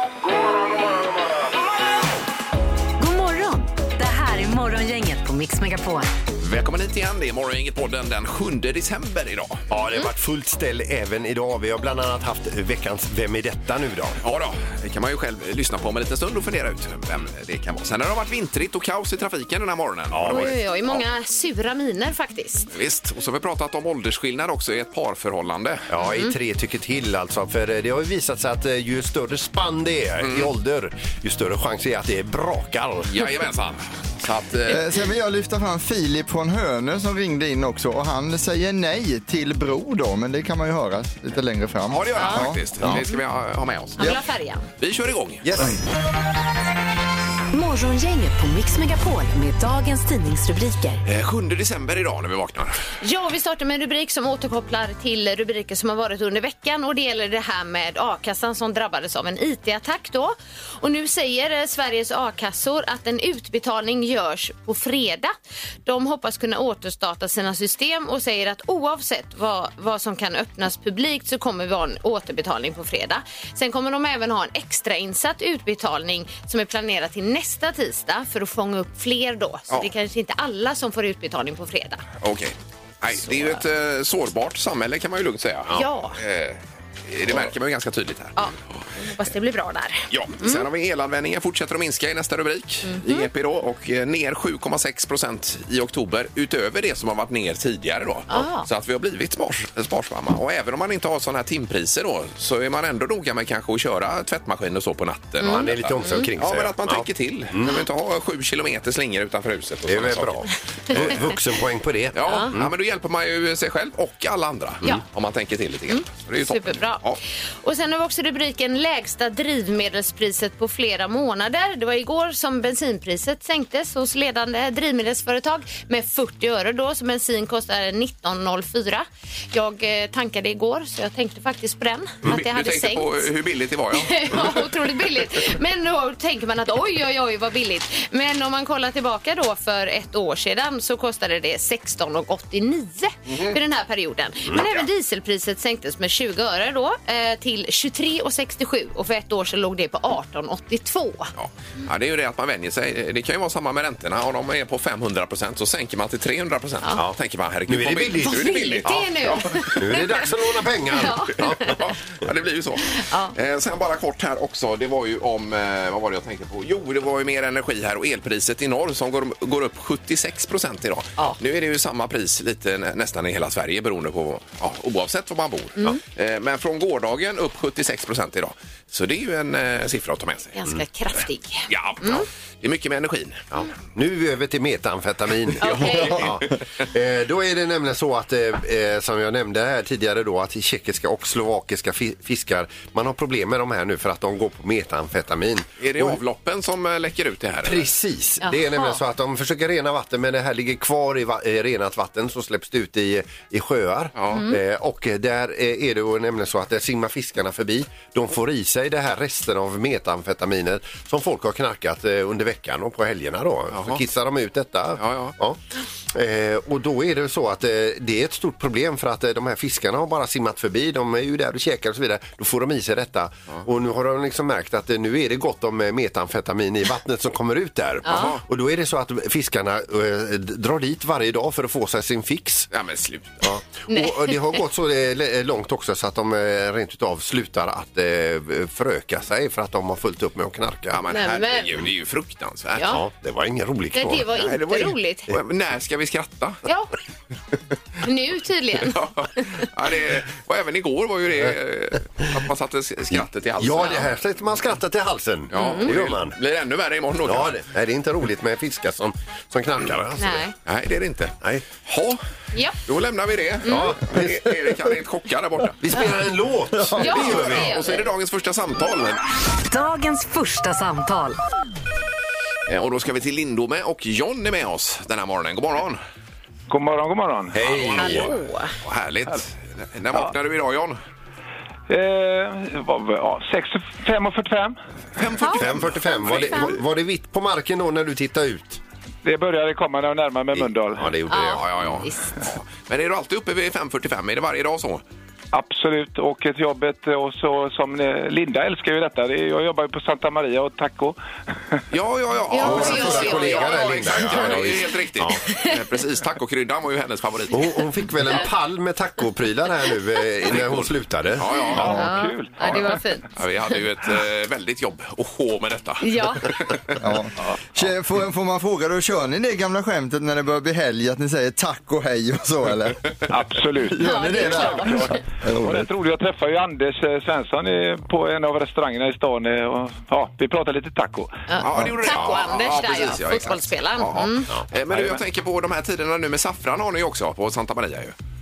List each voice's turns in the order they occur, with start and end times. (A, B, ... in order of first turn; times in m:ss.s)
0:03.0-0:06.1 A
0:06.4-0:09.6 B
0:09.7-0:14.2 C
0:14.2-0:20.6 B
0:20.1-0:20.5 C
0:20.2-0:22.7 D
0:22.7-0:25.9 B
0:25.9-0:33.4 C
0:26.0-0:26.4 D
0:30.2-0:30.5 B
0:33.1-0:34.8 B
0:34.7-0:42.6 E
0:41.9-0:44.2 B
0:42.2-0:43.2 D
0:44.0-0:44.7 D
0:44.8-0:45.7 B
0:45.4-0:45.8 C
0:47.5-0:51.0 A
0:51.0-0:52.7 B
0:53.0-1:05.3 D
1:05.8-1:22.0 D
1:22.2-1:28.4 B
1:23.3-1:23.6 D
1:25.7-1:26.2 D
1:28.4-1:30.6 D
1:30.1-1:51.2 B
1:32.9-1:33.3 D
1:38.3-1:38.7 D
1:45.4-1:46.3 D
1:45.4-1:47.8 C
1:49.9-1:52.7 C
1:52.1-1:57.2 B
1:52.2-1:52.5 D
1:55.9-1:57.0 D
1:57.6-2:13.3 D
2:12.3-2:14.7 B
2:13.9-2:31.3 D
2:23.3-2:23.6 B
2:31.4-2:40.1 B
2:37.7-2:38.5 C
2:38.2-2:41.8 D
2:39.8-2:41.8 C
2:41.4-3:00.6 B
2:42.9-2:43.3 D
3:00.5-3:02.3 D
3:01.7-3:03.4 B
3:03.5-3:16.2 C
3:05.6-3:06.3 D
3:05.7-3:06.4 B
3:15.8-3:17.9 B
3:17.6-3:35.6 C
3:18.4-3:19.0 D
3:24.2-3:24.4 B
3:24.3-3:24.6 D
3:33.7-3:34.0 B
3:35.0-3:35.4 B
3:36.1-3:52.7 C
3:48.1-3:48.3 D
3:48.1-3:48.4 B
3:52.7-3:53.4 B
3:53.4-4:01.0 C
3:53.9-3:54.4 D
4:00.9-4:02.9 B
4:01.1-4:01.8 D
4:02.8-4:03.0 D
4:02.9-4:04.3 C
4:03.9-4:05.3 D
4:04.3-4:06.6 B
4:08.0-4:09.4 D
4:08.8-4:14.1 B
4:13.1-4:16.4 C
4:15.5-4:17.6 B
4:15.6-4:15.9 D
4:17.2-4:20.5 C
4:20.2-4:20.5 D
4:20.6-4:22.2 B
4:22.5-4:22.8 D
4:22.8-4:25.8 B
4:23.6-4:24.0 D
4:23.6-4:24.6 C
4:25.8-4:27.7 C
4:27.0-4:28.1 D
4:27.0-4:29.2 B
4:29.7-4:31.4 A
4:32.7-4:36.0 B
4:36.7-4:37.6 F
4:37.5-4:38.3 C
4:37.6-4:41.0 B
4:38.0-4:38.7 D
4:41.9-4:44.8 F
4:45.2-4:46.8 B
4:45.4-4:46.7 D
4:45.5-4:48.8 C
4:49.2-4:51.1 F
4:50.6-4:52.1 C
4:51.3-4:52.3 D
4:51.6-4:55.0 B
4:55.5-5:01.2 F
5:01.9-5:07.6 B
5:02.5-5:04.9 D
5:02.6-5:05.4 C
5:05.5-5:05.7 D
5:07.5-5:12.0 C
5:10.5-5:12.1 B
5:11.8-5:13.0 F
5:11.8-5:13.3 D
5:13.4-5:17.0 B
5:16.0-5:16.5 D
5:17.0-5:23.1 E
5:23.3-5:31.4 F
5:23.9-5:25.9 E
5:24.0-5:25.2 D
5:31.5-5:34.5 D
5:31.6-5:38.2 B
5:32.1-5:32.4 C
5:34.9-5:35.2 F